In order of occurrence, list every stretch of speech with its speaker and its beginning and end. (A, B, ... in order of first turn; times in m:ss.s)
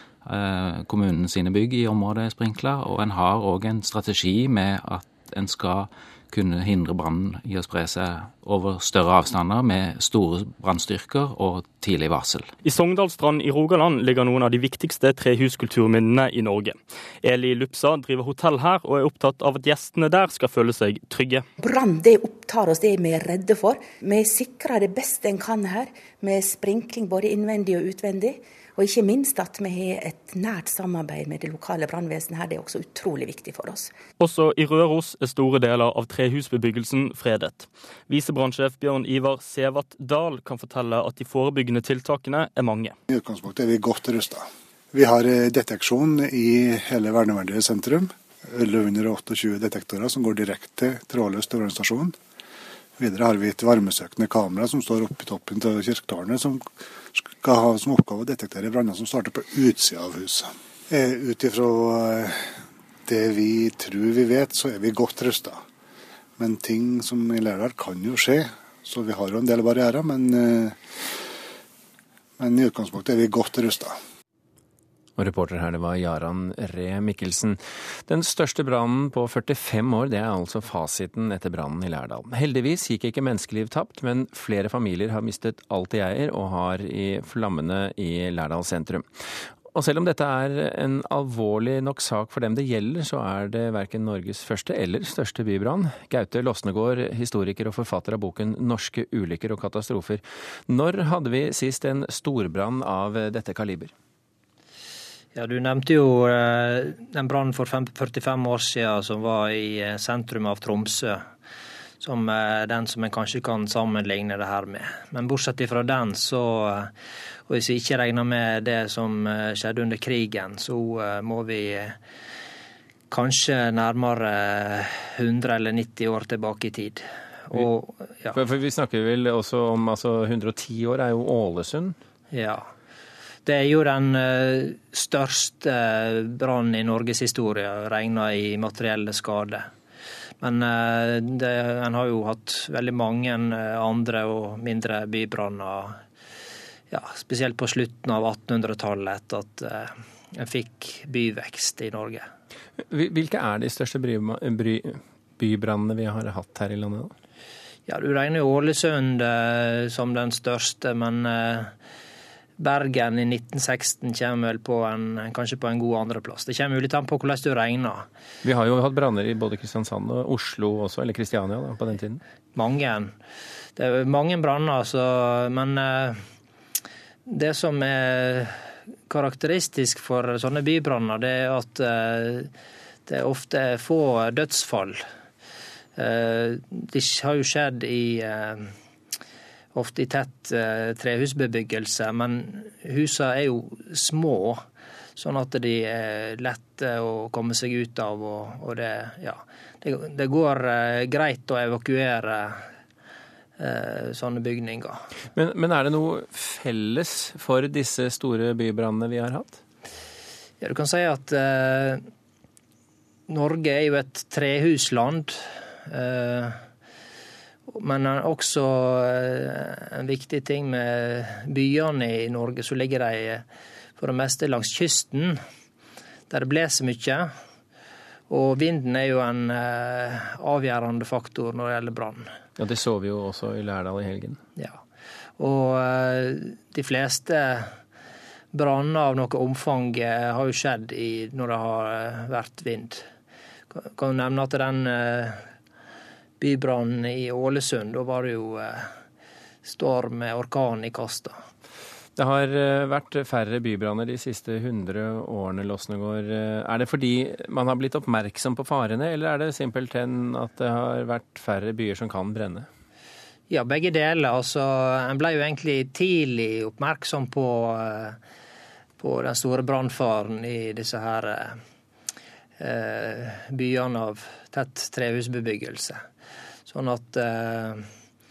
0:00.2-0:12.5 A
0:12.6-0:21.4 B
0:21.7-0:33.9 C
0:34.2-0:42.9 B
0:43.1-0:52.1 D
0:53.0-1:02.4 D
1:03.0-1:05.6 D
1:06.4-1:10.8 D
1:12.4-1:14.0 D
1:15.2-1:29.0 E
1:29.7-1:43.9 E
1:45.3-1:51.2 F
1:52.0-1:56.9 F
1:57.5-2:02.0 F
2:03.1-2:08.4 F
2:08.3-2:11.9 E
2:12.3-2:12.7 F
2:13.4-2:19.7 F
2:20.4-2:26.0 F
2:26.9-2:32.2 F
2:32.9-2:37.1 E
2:37.8-2:41.7 F
2:42.6-2:48.0 F
2:48.4-2:52.2 E
2:52.5-2:53.1 F
2:53.8-2:56.2 F
2:57.2-2:58.6 F
2:59.1-3:02.5 F
3:03.0-3:05.0 F
3:06.0-3:08.7 F
3:09.7-3:14.6 F
3:15.2-3:22.6 F
3:23.6-3:25.0 F
3:25.3-3:29.6 E
3:30.6-3:32.0 F
3:33.3-3:36.6 F
3:37.7-3:43.4 F
3:44.0-3:45.4 F
3:46.3-3:47.3 F
3:48.3-3:52.2 F
3:52.6-3:54.4 E
3:55.4-3:57.7 F
3:58.5-4:03.0 F
4:03.7-4:05.4 F
4:06.4-4:08.9 F
4:09.6-4:11.3 F
4:12.2-4:22.7 E
4:23.5-4:28.2 F
4:29.0-4:31.6 F
4:32.6-4:36.0 F
4:36.7-4:37.8 F